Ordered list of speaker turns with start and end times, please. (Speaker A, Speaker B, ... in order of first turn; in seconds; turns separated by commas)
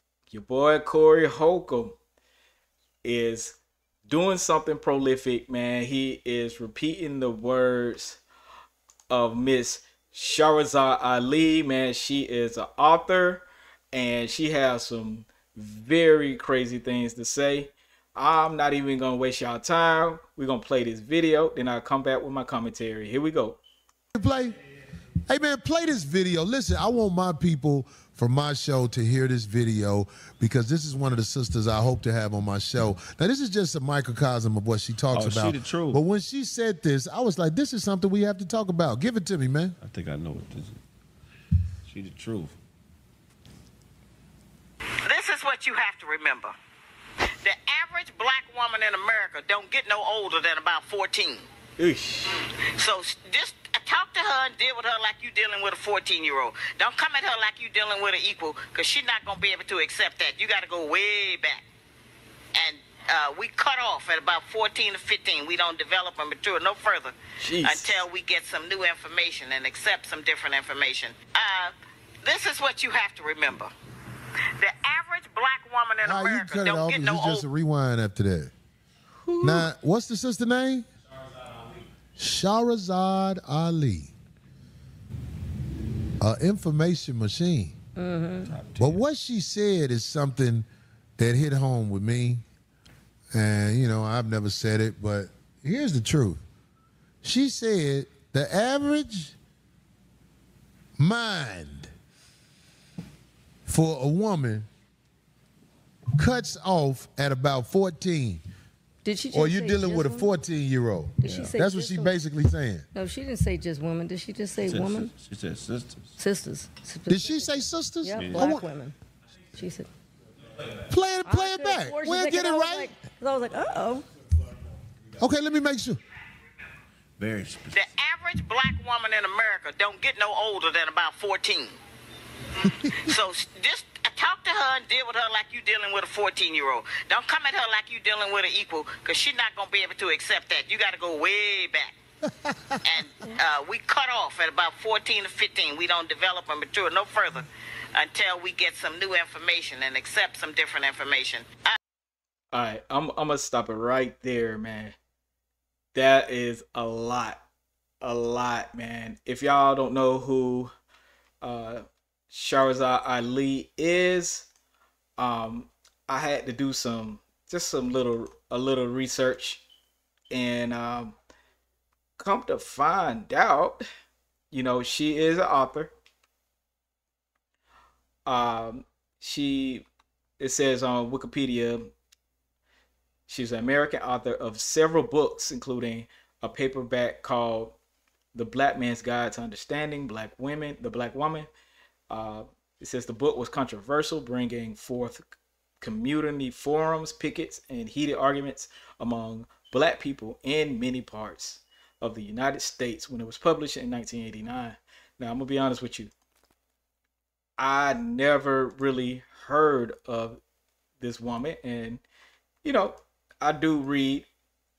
Speaker A: 0.3-2.0, Speaker A: 3.0-8.2, Speaker A: 9.1-23.6, Speaker B: 24.1-24.5, Speaker B: 25.3-39.8, Speaker C: 35.1-36.0, Speaker C: 39.8-40.8, Speaker C: 41.8-42.5, Speaker D: 45.0-46.5, Speaker D: 47.4-51.4, Speaker A: 51.8-52.4, Speaker D: 52.8-61.6, Speaker D: 62.5-73.7, Speaker A: 67.4-68.0, Speaker D: 74.6-77.4, Speaker B: 76.0-78.5, Speaker E: 79.2-79.7, Speaker B: 79.4-80.8, Speaker B: 82.2-84.1, Speaker B: 86.2-87.8, Speaker E: 88.0-88.5, Speaker C: 88.5-89.0, Speaker B: 88.8-90.7, Speaker B: 91.2-92.4, Speaker B: 93.3-96.4, Speaker B: 97.2-99.3, Speaker B: 101.0-101.9, Speaker B: 103.7-104.7, Speaker B: 106.2-108.4, Speaker E: 109.0-110.3, Speaker B: 109.3-112.8, Speaker E: 111.2-112.1, Speaker C: 111.2-111.5, Speaker E: 112.9-115.1, Speaker C: 114.6-116.1, Speaker E: 116.2-118.9, Speaker B: 117.1-118.7, Speaker C: 118.2-118.6, Speaker E: 119.5-119.9, Speaker B: 120.7-122.9, Speaker E: 121.2-124.1, Speaker B: 125.2-126.0, Speaker C: 127.2-127.9, Speaker D: 127.7-131.8, Speaker B: 132.6-133.2, Speaker D: 132.9-141.9, Speaker B: 142.2-143.0, Speaker D: 142.8-151.8, Speaker A: 152.5-154.9, Speaker A: 155.9-157.4, Speaker A: 158.0-160.7, Speaker A: 161.4-164.5, Speaker A: 165.2-169.6, Speaker A: 170.3-171.1, Speaker A: 172.2-173.8, Speaker A: 174.5-175.9, Speaker A: 178.2-179.9, Speaker A: 180.4-181.9, Speaker A: 183.3-187.8, Speaker A: 188.3-191.5, Speaker A: 192.1-195.2, Speaker A: 195.8-206.1, Speaker A: 207.6-210.4, Speaker A: 211.0-212.0, Speaker A: 212.6-214.3